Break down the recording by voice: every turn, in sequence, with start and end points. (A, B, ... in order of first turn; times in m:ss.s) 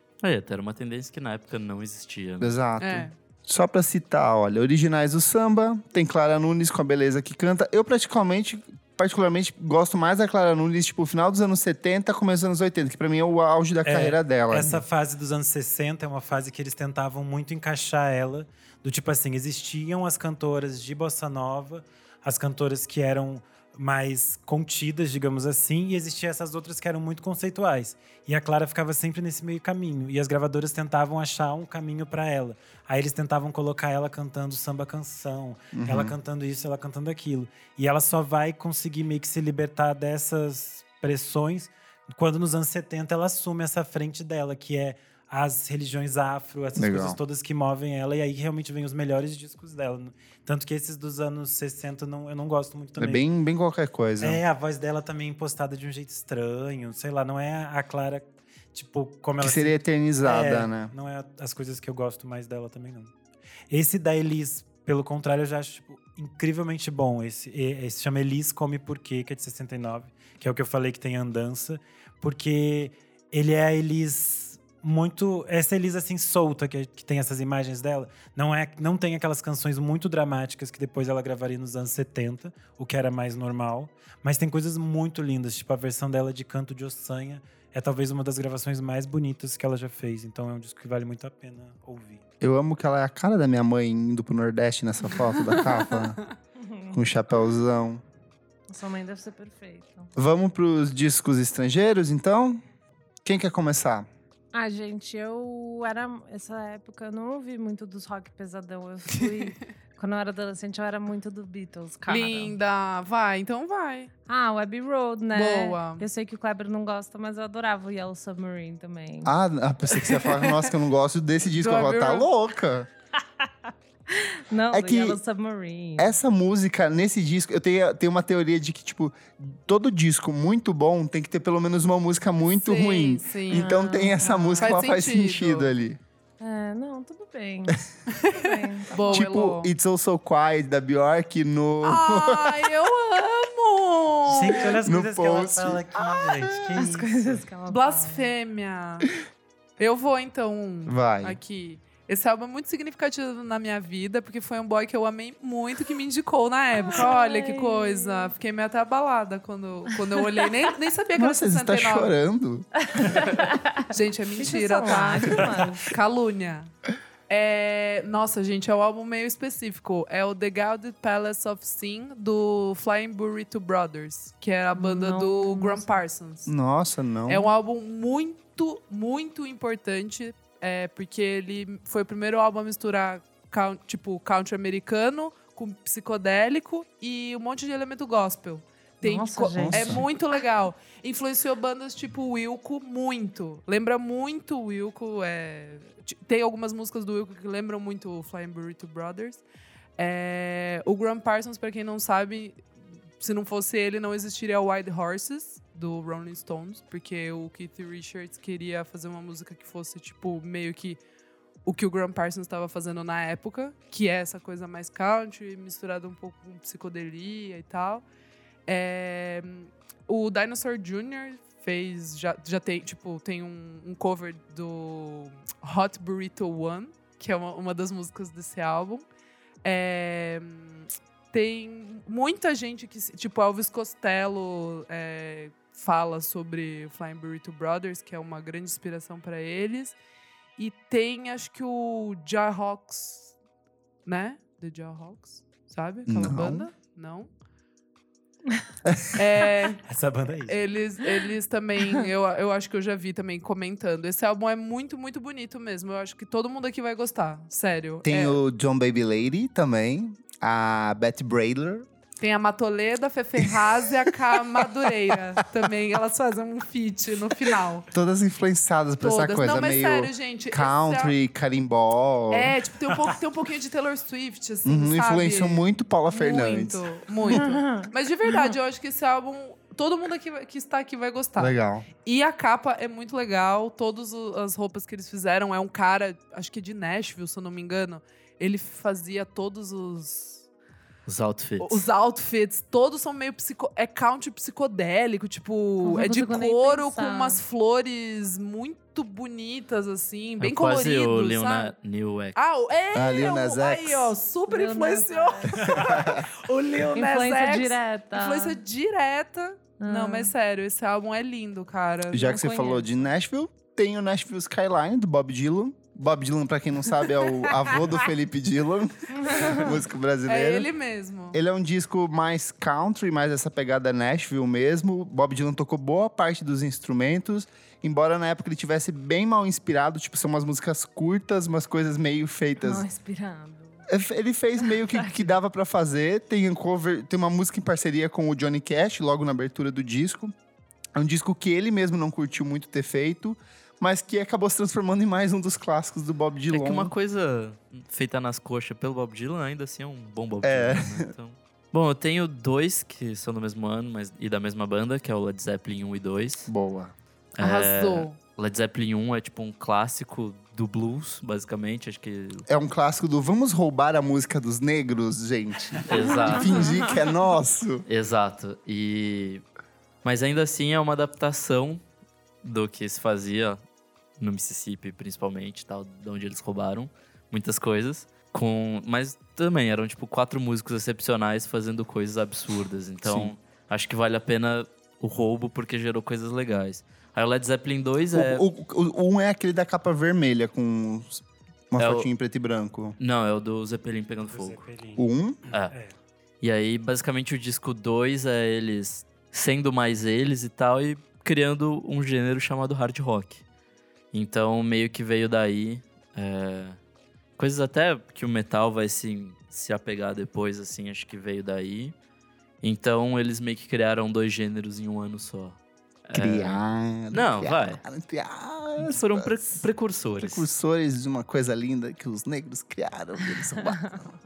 0:00.2-0:02.6 A
0:02.4-0:14.8 B
0:02.8-0:03.1 C
0:13.8-0:53.2 D
0:35.7-0:36.2 B
0:46.8-0:47.2 B
0:53.0-0:54.4 B
0:54.2-1:03.1 D
0:59.4-1:00.9 B
1:03.7-1:32.2 D
1:32.4-1:36.2 B
1:35.5-1:36.0 C
1:36.6-1:37.0 E
1:36.9-1:38.0 B
1:38.7-1:40.1 E
1:40.2-1:42.6 B
1:43.2-1:44.1 B
1:44.5-1:52.6 E
1:49.2-1:49.5 C
1:52.1-1:54.1 C
1:54.2-1:59.3 E
1:55.3-1:56.1 C
1:59.2-2:02.9 B
2:00.0-2:00.7 C
2:01.6-2:02.3 C
2:04.1-2:06.1 E
2:04.7-2:05.2 B
2:06.0-2:16.0 B
2:12.5-2:13.7 C
2:13.5-2:14.8 E
2:14.6-2:15.7 C
2:16.4-2:19.3 E
2:18.1-2:19.7 C
2:19.1-2:22.7 B
2:21.8-2:24.8 C
2:24.3-2:27.4 D
2:24.4-2:26.8 B
2:26.7-2:28.3 E
2:27.7-2:29.1 C
2:29.8-2:42.1 C
2:30.9-2:31.4 B
2:36.8-2:38.3 E
2:41.2-2:43.3 B
2:42.9-2:45.9 E
2:43.2-2:46.7 C
2:47.3-2:56.5 C
2:54.8-2:55.9 E
2:56.5-2:57.5 B
2:57.3-3:19.4 C
3:09.0-3:10.0 E
3:09.6-3:10.0 B
3:20.0-3:22.6 C
3:23.2-3:31.0 C
3:31.6-3:38.1 C
3:38.7-3:49.0 C
3:49.6-4:00.0 C
4:00.6-4:03.3 C
4:04.0-4:07.3 C
4:06.1-4:06.7 B
4:08.8-4:09.2 B
4:09.2-4:09.8 C
4:09.9-4:10.6 D
4:10.5-4:18.4 C
4:18.0-4:21.9 B
4:22.2-4:27.9 C
4:23.5-4:24.1 B
4:27.9-4:32.6 B
4:29.0-4:31.1 C
4:32.3-4:50.4 C
4:34.6-4:37.4 B
4:37.3-4:37.9 E
4:41.4-4:41.9 B
4:51.1-4:51.8 A
4:51.6-5:01.7 C
4:55.8-4:57.4 E
5:00.4-5:02.4 A
5:02.4-5:12.4 C
5:02.9-5:04.2 B
5:04.5-5:05.8 E
5:05.6-5:06.3 B
5:06.9-5:08.6 E
5:09.8-5:10.3 E
5:12.1-5:20.7 B
5:12.2-5:12.9 E
5:19.1-5:19.8 E
5:20.3-5:21.4 C
5:21.3-5:32.8 B
5:32.6-5:33.9 E
5:33.9-5:40.3 B
5:41.0-5:46.9 B
5:46.5-5:56.5 A
5:50.4-5:51.1 B
5:56.5-5:56.9 B
5:57.4-6:02.5 A
5:57.4-5:58.2 C
6:02.5-6:07.8 B
6:05.8-6:06.8 A
6:06.1-6:07.0 E
6:07.9-6:09.4 A
6:10.0-6:11.8 A
6:12.4-6:13.6 A
6:14.2-6:28.4 A
6:23.0-6:23.3 B
6:28.1-6:33.0 B
6:31.8-6:32.1 A
6:33.0-6:34.6 A
6:34.3-6:36.0 D
6:35.0-6:35.4 B
6:36.4-6:43.4 A
6:44.1-6:46.8 A
6:47.4-6:52.0 A
6:52.6-6:57.8 A
6:56.1-6:59.4 B
6:58.8-7:00.5 A
7:00.2-7:04.0 B